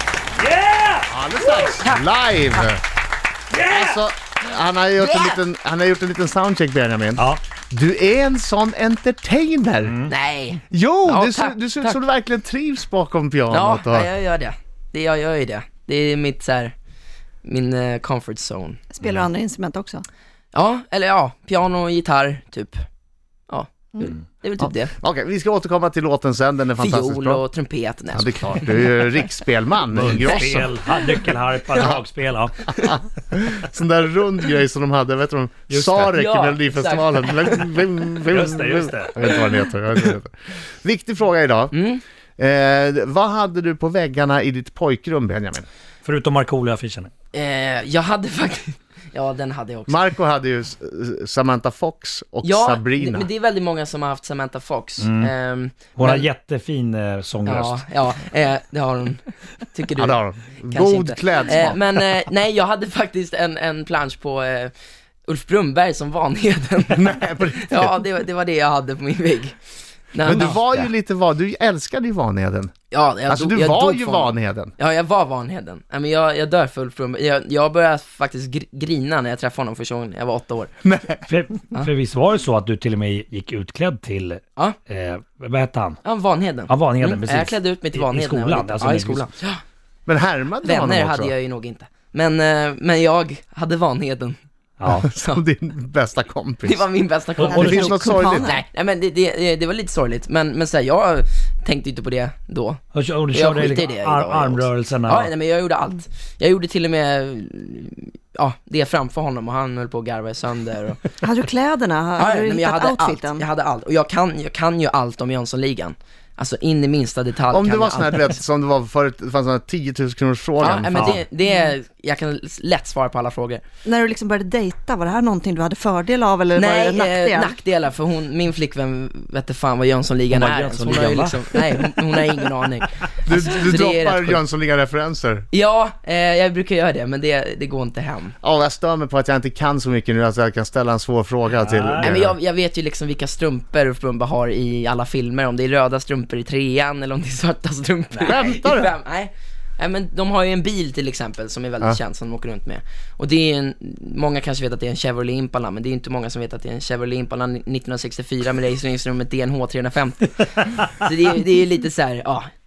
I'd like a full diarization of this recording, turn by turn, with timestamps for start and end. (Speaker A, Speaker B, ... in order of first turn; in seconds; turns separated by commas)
Speaker A: 0.4-1.8, Speaker B: 1.1-2.8, Speaker C: 1.8-2.7, Speaker A: 3.5-4.0, Speaker B: 3.7-10.0, Speaker C: 5.0-5.4, Speaker A: 9.8-10.1, Speaker C: 10.1-12.0, Speaker B: 10.6-14.1, Speaker C: 13.5-16.7, Speaker C: 17.4-18.8, Speaker D: 18.9-20.0, Speaker C: 20.5-22.8, Speaker C: 23.5-24.9, Speaker B: 24.6-27.4, Speaker C: 26.8-28.9, Speaker B: 28.1-30.7, Speaker A: 29.9-32.6, Speaker C: 30.3-31.9, Speaker C: 32.7-33.0, Speaker B: 32.8-41.7, Speaker A: 35.7-36.1, Speaker C: 36.1-37.8, Speaker A: 38.3-39.2, Speaker C: 41.7-42.0, Speaker B: 42.4-45.7, Speaker A: 46.0-47.1, Speaker C: 47.3-50.1, Speaker B: 49.9-53.3, Speaker C: 52.4-56.3, Speaker A: 55.0-55.3, Speaker A: 55.9-57.8, Speaker C: 57.5-64.7, Speaker B: 60.0-61.8, Speaker C: 65.3-69.6, Speaker B: 66.9-68.0, Speaker C: 70.1-70.6, Speaker A: 70.2-70.9, Speaker B: 70.2-72.7, Speaker C: 72.9-80.7, Speaker B: 73.3-74.7, Speaker B: 80.8-81.2, Speaker A: 81.3-86.0, Speaker C: 86.0-89.6, Speaker A: 86.7-89.3, Speaker B: 90.1-91.3, Speaker C: 90.6-94.4, Speaker A: 94.8-95.1, Speaker B: 94.8-96.9, Speaker C: 95.2-95.4, Speaker C: 96.6-111.2, Speaker A: 97.4-98.0, Speaker B: 97.5-98.6, Speaker D: 97.5-98.6, Speaker A: 102.9-105.3, Speaker D: 111.2-113.5, Speaker C: 112.2-118.4, Speaker B: 117.5-121.2, Speaker C: 120.6-123.6, Speaker A: 120.9-121.2, Speaker D: 123.9-127.5, Speaker C: 126.5-134.4, Speaker A: 130.3-131.6, Speaker B: 133.2-135.5, Speaker C: 135.5-138.4, Speaker B: 138.4-142.3, Speaker A: 141.6-142.2, Speaker C: 142.0-162.5, Speaker B: 148.2-148.9